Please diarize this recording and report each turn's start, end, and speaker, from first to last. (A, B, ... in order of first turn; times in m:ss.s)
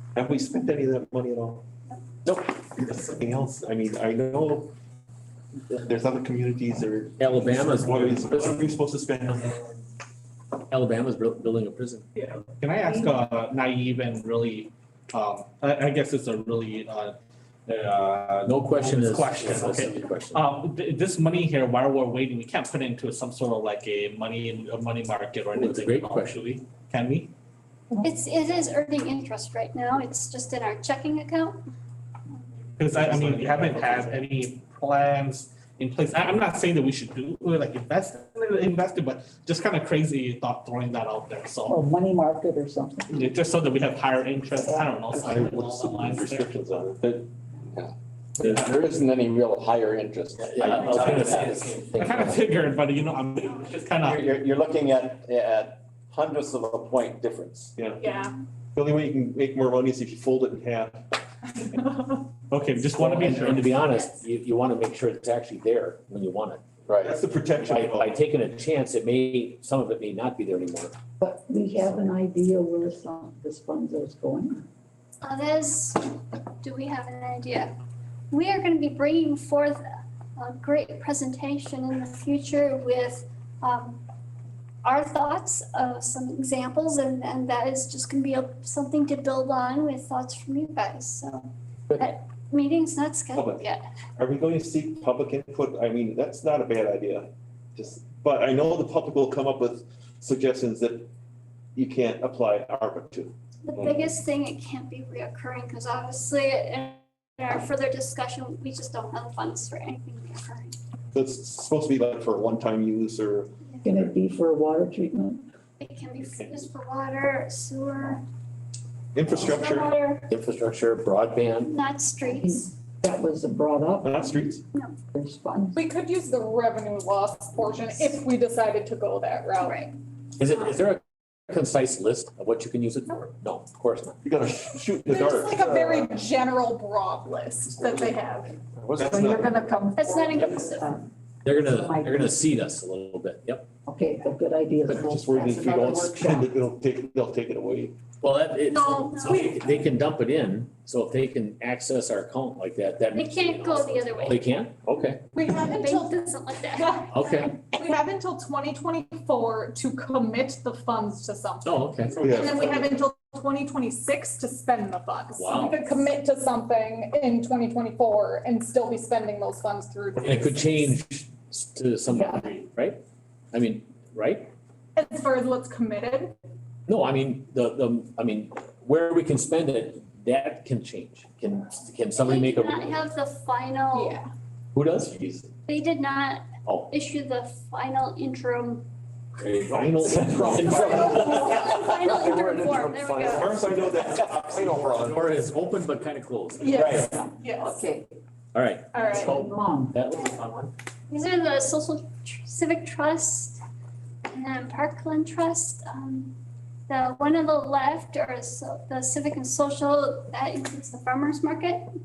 0:00.2-0:01.6 A
0:02.2-0:02.5 B
0:02.8-0:04.7 A
0:05.7-0:09.6 A
0:07.2-0:08.7 B
0:10.6-0:12.1 B
0:12.3-0:17.2 C
0:17.7-0:27.3 C
0:18.4-0:20.4 B
0:25.5-0:26.4 B
0:28.0-0:31.6 D
0:32.8-0:41.8 C
0:41.7-0:43.2 E
0:43.1-0:46.5 C
0:44.6-0:45.3 E
0:45.2-0:47.1 A
0:47.0-0:51.8 F
0:50.4-0:52.5 B
0:51.9-0:54.3 C
0:54.0-0:57.7 F
0:57.8-0:58.1 A
0:58.0-0:58.3 G
0:58.8-1:01.1 A
1:02.5-1:03.8 C
1:03.0-1:06.8 B
1:06.9-1:07.1 F
1:07.0-1:08.2 A
1:07.6-1:11.0 B
1:11.2-1:14.6 E
1:15.2-1:17.8 D
1:18.3-1:19.8 D
1:20.4-1:24.0 D
1:24.8-1:33.9 D
1:33.3-1:33.6 A
1:34.2-1:41.1 A
1:41.8-1:43.3 A
1:43.6-1:50.8 D
1:51.1-1:53.5 A
1:53.8-1:55.4 E
1:55.8-1:58.2 D
1:59.2-1:59.9 A
1:59.5-2:00.3 D
2:00.3-2:01.7 B
2:01.6-2:02.7 D
2:02.4-2:04.2 E
2:04.0-2:04.6 A
2:05.1-2:05.8 E
2:05.8-2:09.9 G
2:09.6-2:09.9 D
2:10.4-2:14.2 B
2:14.2-2:16.2 A
2:15.1-2:20.7 G
2:18.8-2:19.5 A
2:19.0-2:21.0 E
2:20.0-2:20.9 D
2:21.4-2:23.7 B
2:21.5-2:22.4 E
2:23.9-2:26.5 E
2:24.9-2:28.0 A
2:28.2-2:35.2 B
2:28.7-2:29.7 G
2:33.1-2:34.5 D
2:35.3-2:36.2 G
2:35.7-2:37.1 D
2:36.7-2:37.1 G
2:37.1-2:37.7 B
2:37.6-2:50.7 G
2:41.6-2:42.3 B
2:42.2-2:42.6 A
2:45.3-2:46.1 B
2:50.2-2:53.0 B
2:52.1-2:52.5 E
2:53.5-2:54.5 B
2:55.0-2:56.4 G
2:56.9-3:03.1 B
3:02.2-3:04.2 D
3:03.9-3:04.2 G
3:04.7-3:05.5 B
3:05.7-3:08.8 D
3:06.6-3:06.9 B
3:09.4-3:12.1 B
3:09.7-3:10.9 A
3:10.1-3:15.2 F
3:10.9-3:13.5 D
3:13.3-3:15.1 A
3:14.2-3:17.1 B
3:16.6-3:17.9 G
3:16.9-3:18.1 E
3:18.5-3:20.7 B
3:18.9-3:19.3 G
3:19.1-3:20.0 E
3:21.1-3:23.6 D
3:24.3-3:26.3 D
3:26.9-3:31.8 D